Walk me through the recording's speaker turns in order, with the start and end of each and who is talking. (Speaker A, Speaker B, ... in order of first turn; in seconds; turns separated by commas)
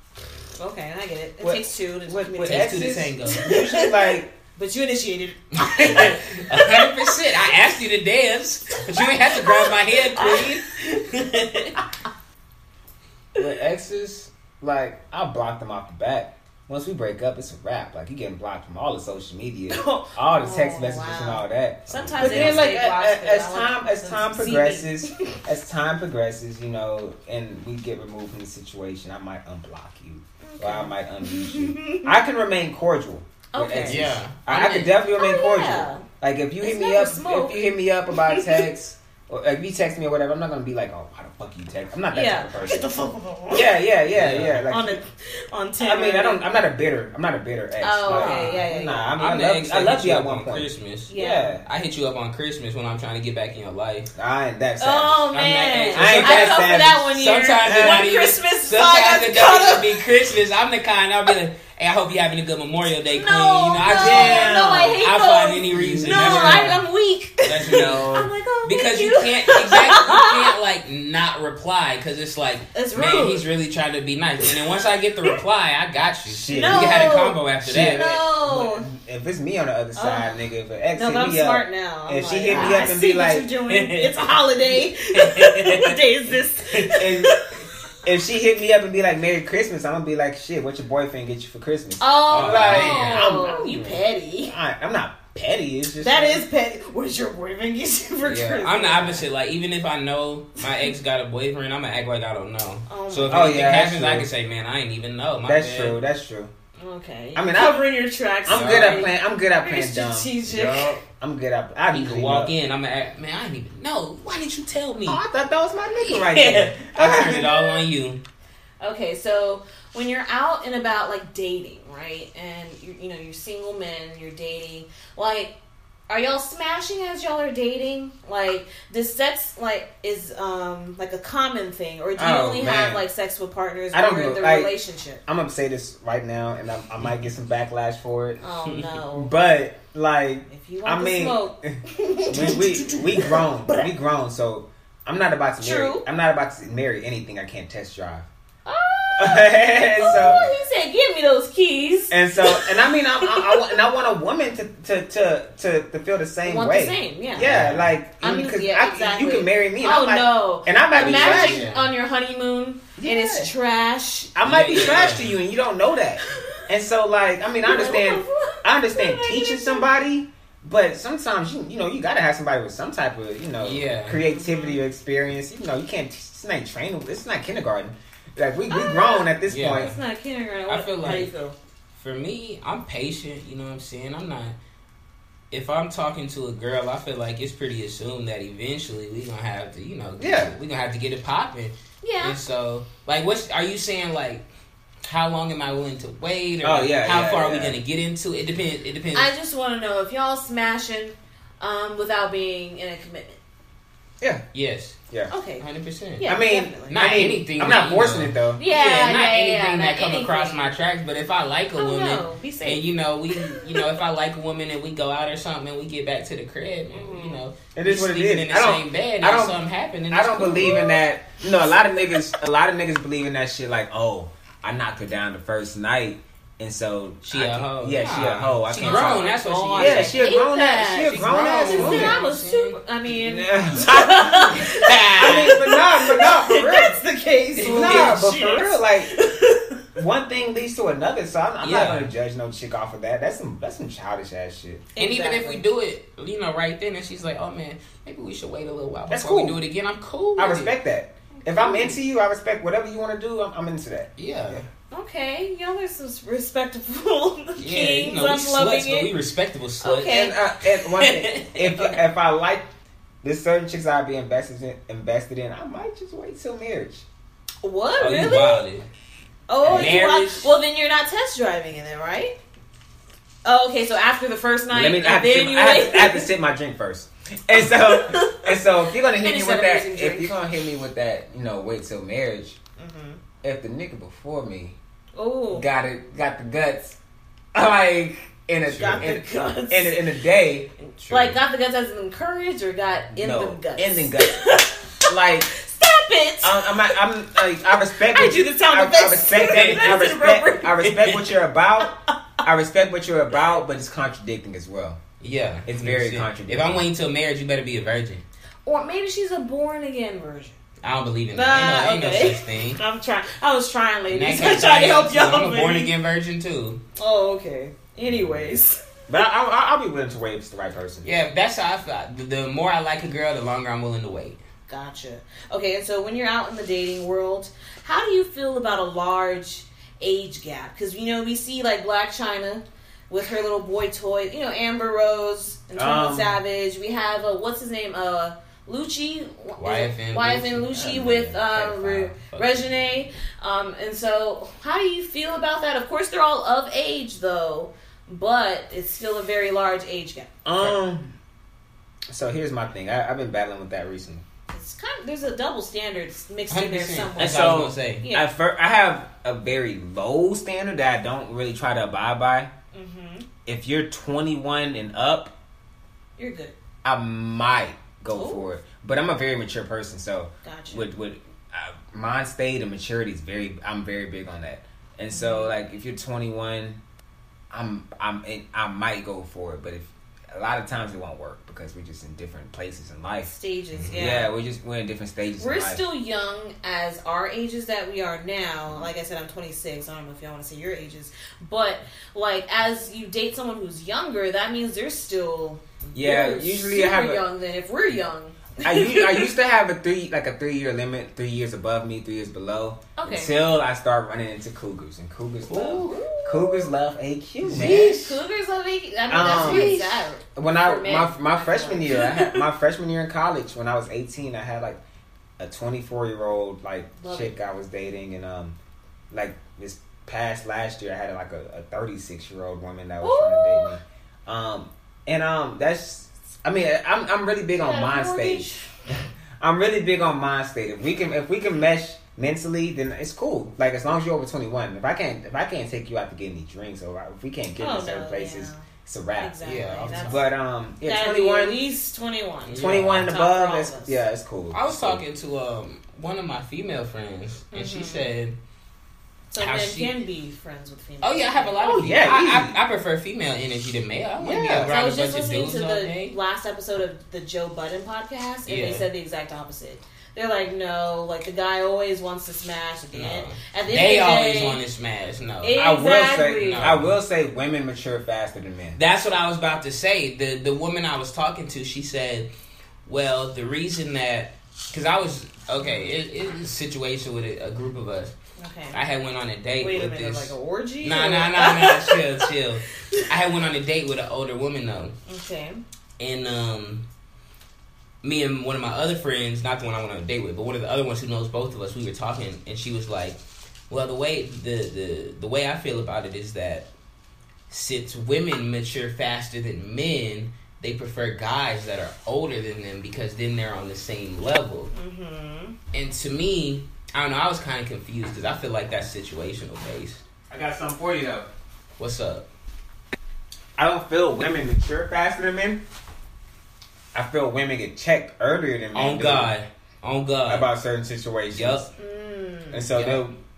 Speaker A: 0.6-7.2, Speaker B: 1.4-4.3, Speaker C: 2.4-3.5, Speaker C: 5.6-11.8, Speaker A: 8.9-10.6, Speaker B: 13.4-42.9, Speaker A: 19.7-25.4, Speaker C: 21.9-22.7, Speaker A: 30.4-32.1, Speaker A: 33.5-34.0, Speaker C: 33.9-35.0, Speaker A: 35.2-36.0, Speaker A: 36.6-38.6, Speaker A: 42.1-43.7, Speaker B: 43.5-45.0, Speaker C: 44.1-44.6, Speaker A: 44.7-46.4, Speaker B: 45.8-51.6, Speaker A: 47.8-49.1, Speaker C: 48.1-48.6, Speaker C: 49.2-51.1, Speaker A: 51.1-51.6, Speaker C: 51.6-54.1, Speaker B: 54.1-55.2, Speaker A: 54.8-60.1, Speaker C: 55.3-66.8, Speaker B: 55.9-57.1, Speaker B: 57.6-58.1, Speaker A: 63.1-70.5, Speaker B: 63.8-65.1, Speaker B: 65.7-66.8, Speaker C: 67.4-78.1, Speaker B: 67.6-68.3, Speaker A: 72.7-73.5, Speaker B: 76.3-83.5, Speaker A: 76.5-78.9, Speaker A: 80.0-80.3, Speaker A: 80.9-87.7, Speaker C: 82.5-82.9, Speaker C: 83.7-84.2, Speaker C: 85.1-86.0, Speaker C: 86.7-87.0, Speaker B: 87.0-87.4, Speaker B: 88.0-96.4, Speaker A: 92.0-94.5, Speaker C: 92.3-93.3, Speaker A: 96.0-99.2, Speaker C: 98.2-106.0, Speaker A: 102.9-103.5, Speaker B: 103.3-104.3, Speaker B: 105.4-106.5, Speaker A: 106.8-111.0, Speaker B: 107.3-107.9, Speaker B: 108.5-112.5, Speaker C: 108.5-109.1, Speaker C: 111.9-115.2, Speaker B: 115.1-117.5, Speaker C: 116.0-118.2, Speaker A: 117.1-117.8, Speaker A: 118.8-125.5, Speaker A: 126.1-135.2, Speaker B: 132.2-133.0, Speaker B: 133.9-134.7, Speaker B: 135.3-138.4, Speaker A: 138.4-139.3, Speaker B: 139.1-148.3, Speaker A: 140.5-143.9, Speaker A: 145.6-146.1, Speaker A: 148.7-153.7, Speaker B: 149.2-150.5, Speaker B: 152.1-161.7, Speaker A: 156.4-157.5, Speaker C: 157.4-157.9, Speaker A: 158.2-165.0, Speaker C: 160.9-161.9, Speaker B: 163.0-163.5, Speaker B: 164.3-179.9, Speaker C: 164.4-165.4, Speaker A: 166.3-166.6, Speaker A: 167.6-169.9, Speaker C: 173.6-174.2, Speaker A: 174.2-174.8, Speaker A: 178.7-181.6, Speaker C: 179.5-180.0, Speaker C: 180.7-181.3, Speaker C: 181.9-184.6, Speaker C: 185.5-194.4, Speaker B: 190.2-190.5, Speaker A: 192.0-192.4, Speaker C: 195.1-199.3, Speaker B: 196.6-197.8, Speaker A: 199.1-203.4, Speaker C: 204.5-205.0, Speaker A: 205.3-205.7, Speaker C: 205.6-206.3, Speaker A: 206.2-207.2, Speaker B: 206.2-208.6, Speaker C: 206.9-220.8, Speaker A: 208.6-210.6, Speaker A: 211.8-213.8, Speaker A: 216.9-217.4, Speaker B: 217.8-219.6, Speaker B: 220.1-232.2, Speaker A: 220.5-221.0, Speaker C: 227.3-230.3, Speaker A: 228.8-239.8, Speaker C: 231.0-232.8, Speaker B: 233.1-237.0, Speaker C: 234.5-235.6, Speaker C: 237.6-238.2, Speaker B: 237.6-239.1, Speaker B: 240.0-244.9, Speaker C: 241.6-242.1, Speaker A: 245.0-245.6, Speaker C: 245.0-250.7, Speaker B: 249.1-249.6, Speaker B: 250.4-254.7, Speaker A: 251.4-251.9, Speaker C: 254.2-254.6, Speaker A: 254.9-259.1, Speaker C: 257.6-260.3, Speaker A: 259.8-260.4, Speaker B: 260.1-262.7, Speaker C: 260.9-261.7, Speaker B: 263.2-267.1, Speaker A: 267.6-268.6, Speaker C: 268.0-268.9, Speaker A: 269.5-272.4, Speaker B: 269.6-270.0, Speaker C: 269.6-270.5, Speaker A: 273.4-276.3, Speaker B: 274.7-282.6, Speaker A: 277.6-280.4, Speaker A: 282.8-283.2, Speaker B: 283.4-284.8, Speaker A: 285.1-285.7, Speaker B: 285.5-287.0, Speaker B: 287.5-290.7, Speaker C: 288.7-289.1, Speaker A: 288.7-290.0, Speaker C: 291.0-291.4, Speaker A: 291.1-297.0, Speaker B: 293.1-294.5, Speaker B: 295.1-295.5, Speaker B: 296.4-305.0, Speaker A: 298.0-301.1, Speaker C: 299.4-300.0, Speaker C: 305.2-308.2, Speaker B: 305.6-306.9, Speaker A: 308.7-310.6, Speaker C: 310.8-312.8, Speaker A: 311.3-315.9, Speaker C: 314.1-316.8, Speaker A: 317.0-318.8, Speaker B: 319.1-321.1, Speaker C: 321.0-324.4, Speaker A: 324.7-350.3, Speaker B: 335.8-336.4, Speaker C: 339.6-342.8, Speaker B: 340.7-342.1, Speaker B: 350.4-351.1, Speaker B: 352.1-354.2, Speaker A: 354.5-358.3, Speaker C: 356.5-358.1, Speaker B: 357.2-362.5, Speaker A: 362.7-363.3, Speaker B: 363.5-365.3, Speaker A: 366.2-366.6, Speaker B: 366.8-376.8, Speaker A: 368.1-368.4, Speaker A: 370.4-370.9, Speaker A: 375.1-375.5, Speaker B: 377.5-383.3, Speaker A: 383.2-384.3, Speaker C: 383.8-384.2, Speaker B: 383.9-385.8, Speaker A: 385.4-399.3, Speaker B: 395.9-397.2, Speaker B: 398.6-408.1, Speaker A: 403.0-403.4, Speaker C: 405.5-406.3, Speaker A: 405.8-406.7, Speaker C: 407.4-408.2, Speaker A: 407.5-412.4, Speaker B: 409.1-409.7, Speaker C: 409.2-410.1, Speaker B: 410.4-414.8, Speaker B: 415.4-418.6, Speaker A: 417.0-417.3, Speaker B: 419.1-441.6, Speaker A: 423.0-423.8, Speaker A: 427.6-428.7, Speaker A: 437.6-438.7, Speaker A: 439.2-440.3, Speaker C: 439.4-440.2, Speaker A: 440.8-444.0, Speaker C: 442.5-443.1, Speaker B: 442.6-445.0, Speaker C: 444.5-448.4, Speaker A: 447.5-448.1, Speaker A: 449.3-451.6, Speaker C: 449.4-449.9, Speaker C: 451.0-456.2, Speaker B: 451.6-452.6, Speaker B: 454.2-454.8, Speaker A: 454.6-464.6, Speaker C: 458.5-458.9, Speaker C: 462.9-465.6, Speaker A: 465.4-466.7, Speaker B: 465.5-468.8, Speaker C: 466.4-467.0, Speaker C: 468.8-472.3, Speaker C: 472.9-478.1, Speaker A: 478.4-478.8, Speaker C: 478.7-484.9, Speaker A: 479.6-482.3, Speaker A: 485.1-485.6, Speaker C: 486.0-486.9, Speaker C: 488.0-493.2, Speaker C: 493.7-496.7, Speaker C: 497.5-504.7, Speaker A: 504.7-505.6, Speaker C: 505.7-510.0, Speaker B: 510.3-511.3, Speaker C: 511.8-512.3, Speaker B: 513.6-515.6, Speaker B: 516.9-519.3, Speaker C: 518.7-520.5, Speaker B: 520.3-521.7, Speaker C: 521.3-521.7, Speaker A: 521.8-522.7, Speaker B: 522.5-523.1, Speaker C: 522.7-523.0